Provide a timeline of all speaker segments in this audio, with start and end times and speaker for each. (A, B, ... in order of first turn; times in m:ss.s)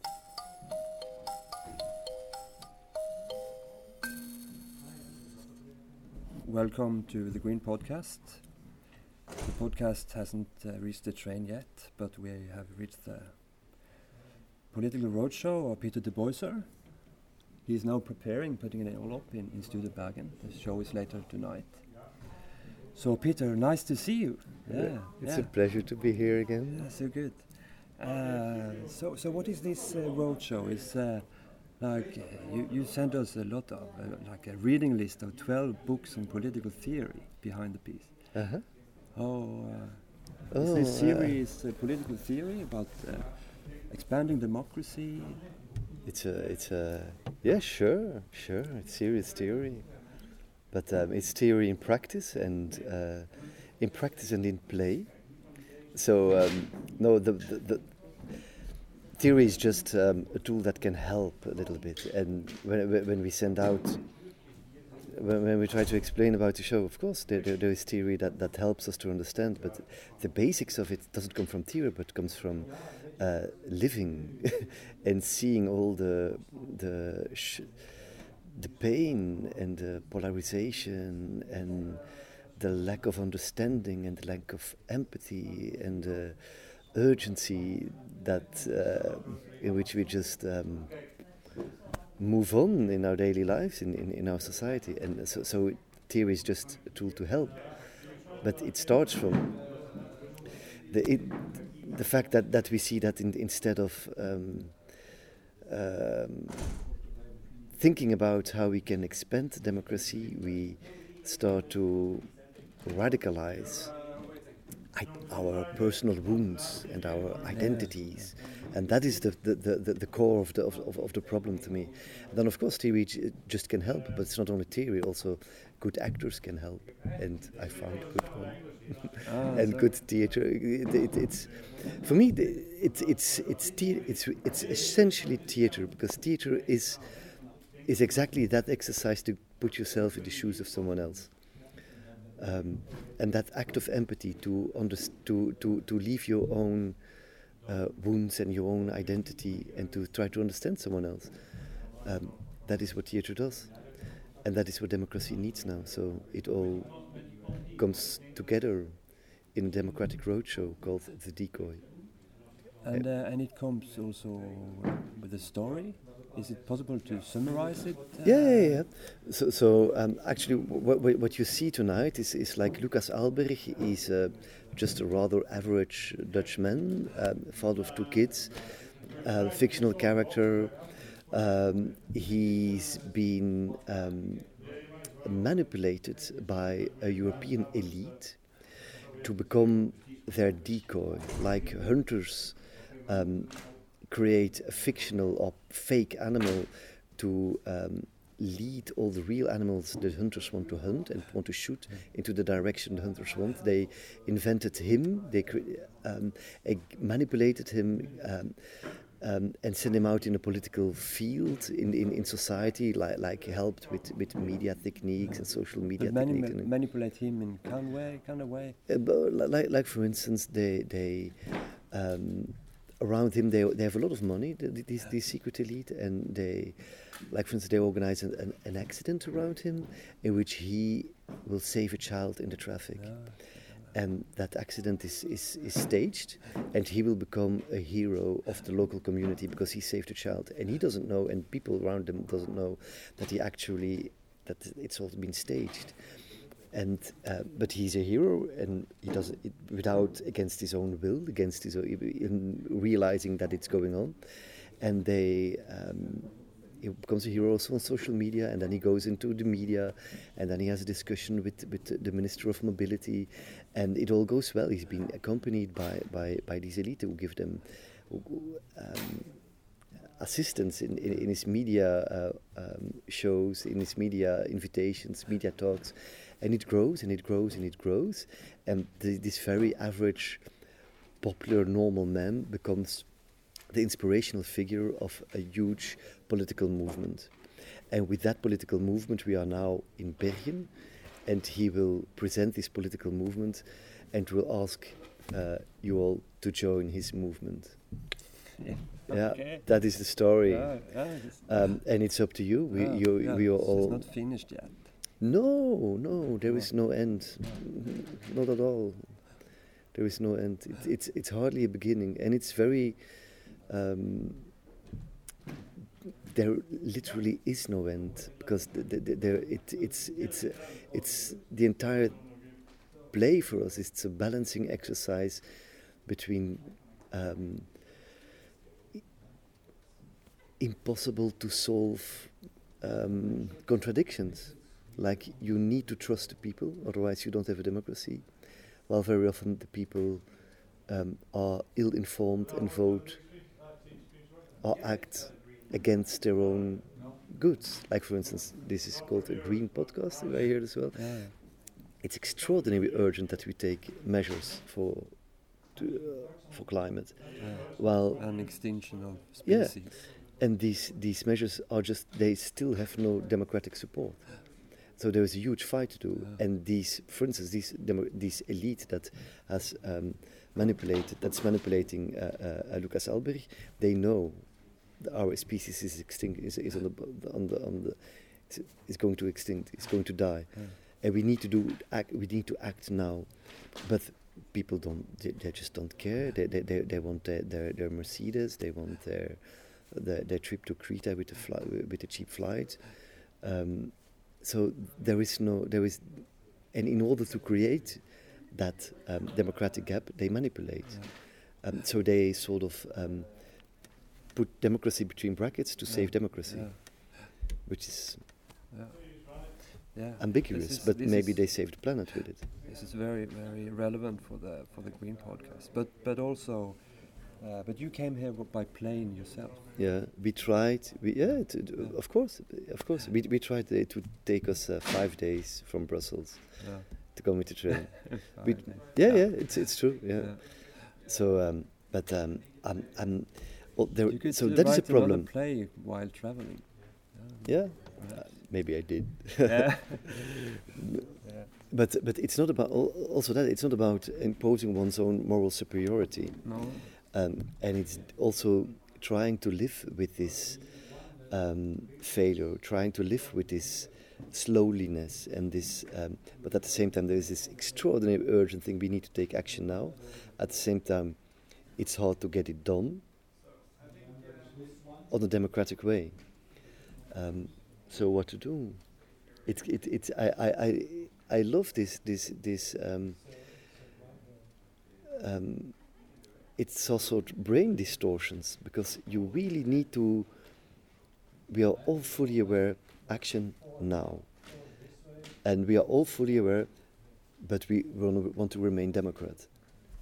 0:06.4-0:08.5 A
0:09.4-0:13.7 A
0:14.7-0:16.8 A
0:17.6-0:22.2 A
0:22.9-0:25.6 A
0:24.7-0:26.9 B
0:26.7-0:38.3 A
0:38.3-0:38.7 B
0:39.1-0:45.4 A
0:40.5-0:41.4 B
0:46.1-0:50.0 B
0:50.7-0:58.0 B
0:59.2-1:04.0 B
1:05.1-1:22.0 B
1:22.6-1:31.0 B
1:32.2-1:39.6 B
1:40.9-1:44.9 B
1:45.7-1:46.6 B
1:47.8-1:52.3 B
1:52.8-1:53.9 B
1:54.9-2:17.3 B
1:57.5-1:58.3 A
2:09.2-2:09.9 A
2:17.8-2:21.3 B
2:22.4-2:27.0 B
2:27.7-2:31.4 B
2:31.9-2:33.9 B
2:34.4-2:41.9 B
2:42.8-2:48.8 A
2:48.2-3:04.5 B
3:05.2-3:08.5 B
3:09.2-3:36.7 B
3:36.0-3:38.8 A
3:38.9-4:06.0 B
3:53.0-3:53.9 A
4:06.7-4:29.4 B
4:30.2-4:40.4 B
4:41.2-4:47.3 B
4:47.9-4:50.7 B
4:51.3-4:57.8 B
4:58.6-5:01.8 A
4:59.1-5:04.2 B
5:02.7-5:04.9 A
5:05.2-5:13.0 B
5:06.4-5:07.6 A
5:13.6-5:14.5 B
5:16.3-5:22.6 B
5:23.1-5:25.4 B
5:26.1-5:27.8 B
5:30.6-5:38.3 B
5:38.9-5:40.2 B
5:40.9-5:43.2 B
5:44.6-5:58.4 B
5:50.9-5:51.3 A
5:57.4-6:00.0 A
5:59.4-6:14.5 B
6:15.0-6:43.8 B
6:20.5-6:20.8 A
6:40.9-6:41.1 A
6:44.4-6:48.2 B
6:45.9-6:47.3 A
6:48.7-6:51.8 A
6:50.2-6:52.5 B
6:52.6-6:59.6 A
6:59.8-7:15.3 B
7:01.2-7:02.1 A
7:06.6-7:07.2 A
7:07.7-7:10.9 A
7:14.1-7:18.4 A
7:17.4-7:20.0 B
7:19.4-7:20.2 A
7:21.2-7:21.5 A
7:21.7-7:43.0 B
7:26.4-7:26.9 A
7:45.1-7:46.2 B
7:47.1-7:53.3 B
7:55.2-7:56.0 B
7:56.6-8:00.3 B
8:01.5-8:04.9 B
8:05.4-8:09.7 B